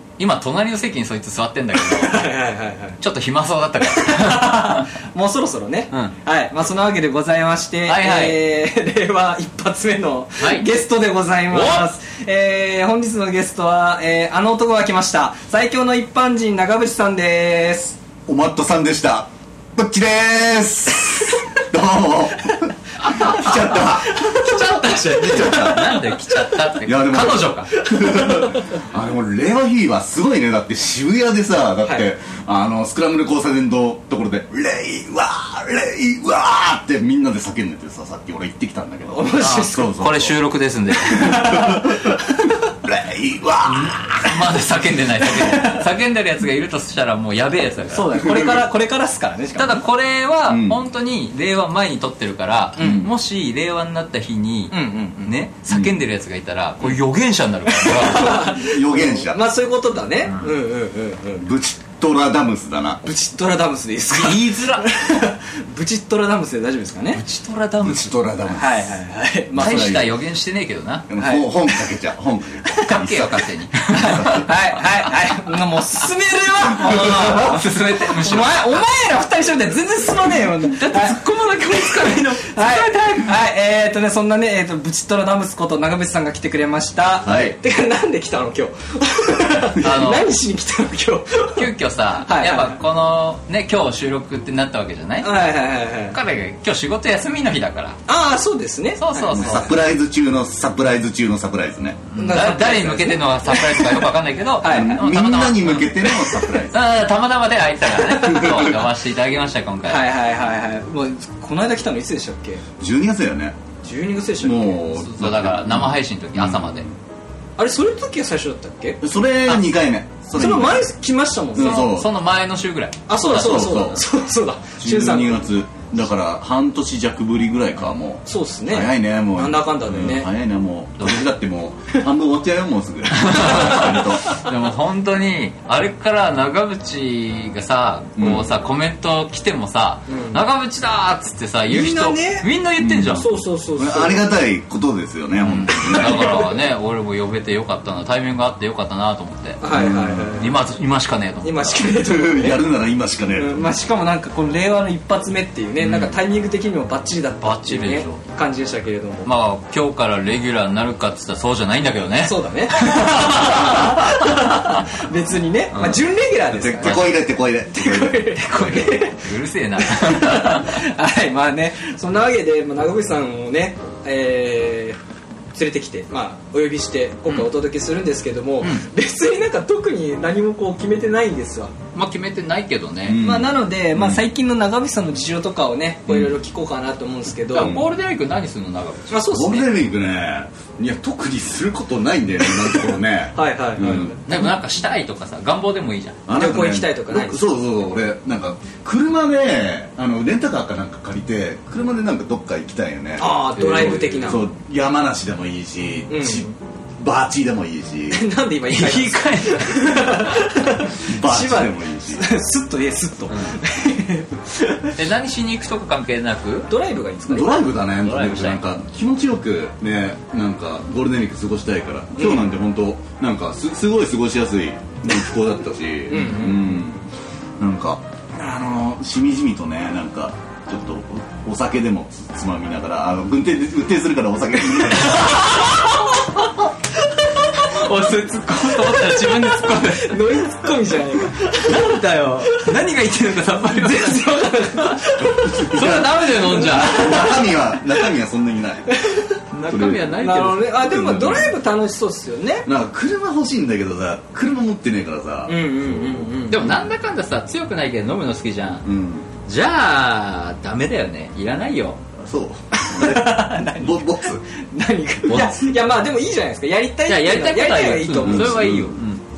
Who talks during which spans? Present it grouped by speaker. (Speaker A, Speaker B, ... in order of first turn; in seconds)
Speaker A: 0.2-2.3, 3.0-4.9, 7.9-8.4, 10.4-10.7, 11.5-11.9, 24.4-27.7, 39.4-41.6, 43.6-48.2, 49.6-58.6, 64.1-64.9, 67.1-68.2, 69.6-71.1, 72.9-74.5, 76.7-78.8, 80.6-83.0, 89.8-90.3, 91.6-95.4, 96.1-98.0, 99.0-99.8, 102.1-106.1, 106.7-110.1, 115.0-116.9, 121.6-124.0, 133.2-143.3, 145.4-149.6, 150.4-151.9, 155.8-156.2, 157.4-158.2, 159.2-164.5, 165.7-166.1, 168.4-170.8, 181.9-183.2, 187.5-189.3, 194.3-196.2, 203.6-204.5, 208.7-210.3, 213.3-213.6, 215.0-216.7, 218.0-218.6, 235.1-235.9, 237.4-240.5, 241.6-247.4, 249.5-250.8, 256.5-258.9, 259.5-262.0, 265.3-265.8, 267.1-269.2
Speaker B: 1.7-3.0, 3.8-18.0, 23.0-26.0, 27.7-28.8, 39.1-40.1, 41.0-42.6, 45.2-45.9, 47.9-49.8, 52.8-53.1, 54.7-55.4, 57.7-61.5, 63.0-67.2, 68.5-70.1, 71.2-71.9, 73.9-92.8, 95.2-96.2, 98.1-99.7, 102.2-104.1, 104.6-105.0, 107.9-108.7, 109.9-112.6, 113.8-114.8, 117.6-119.5, 120.3-121.9, 123.1-125.5, 128.3-130.3, 133.4-134.5, 140.1-140.4, 141.7-142.5, 143.2-144.3, 145.7-146.5, 149.6-150.5, 151.4-152.6, 153.3-159.3, 162.2-167.1, 167.7-175.0, 175.5-181.7, 183.2-187.8, 189.1-189.7, 192.5-194.2, 196.3-197.4, 203.2-204.5, 206.1-206.6, 208.1-215.0, 216.7-217.6, 222.2-222.5, 226.1-226.8, 234.7-235.9, 237.1-242.7, 243.7-247.8, 248.9-249.4, 250.2-252.7, 255.5-256.7, 262.7-268.8
Speaker C: 18.3-26.1, 26.8-40.4, 41.2-42.3, 42.8-44.4, 48.1-48.6, 50.5-50.8, 52.8-53.1, 55.7-56.0, 58.6-59.4, 61.4-63.0, 67.8-68.9, 69.5-70.2, 71.1-74.5, 87.2-87.5, 99.3-102.1, 104.7-106.8, 108.3-108.8, 112.8-113.6, 114.4-117.0, 119.0-120.9, 121.5-122.2, 123.3-124.0, 124.8-134.3, 138.2-138.5, 142.8-146.4, 149.7-150.4, 152.0-153.7, 166.5-168.7, 183.1-184.2, 186.1-186.3, 187.6-187.9, 189.3-194.5, 196.3-208.2, 210.9-212.3, 217.3-227.0, 227.6-235.7, 245.4-248.9, 249.7-250.2, 250.8-251.5, 252.7-256.8, 258.8-259.3, 262.2-264.4, 268.2-269.1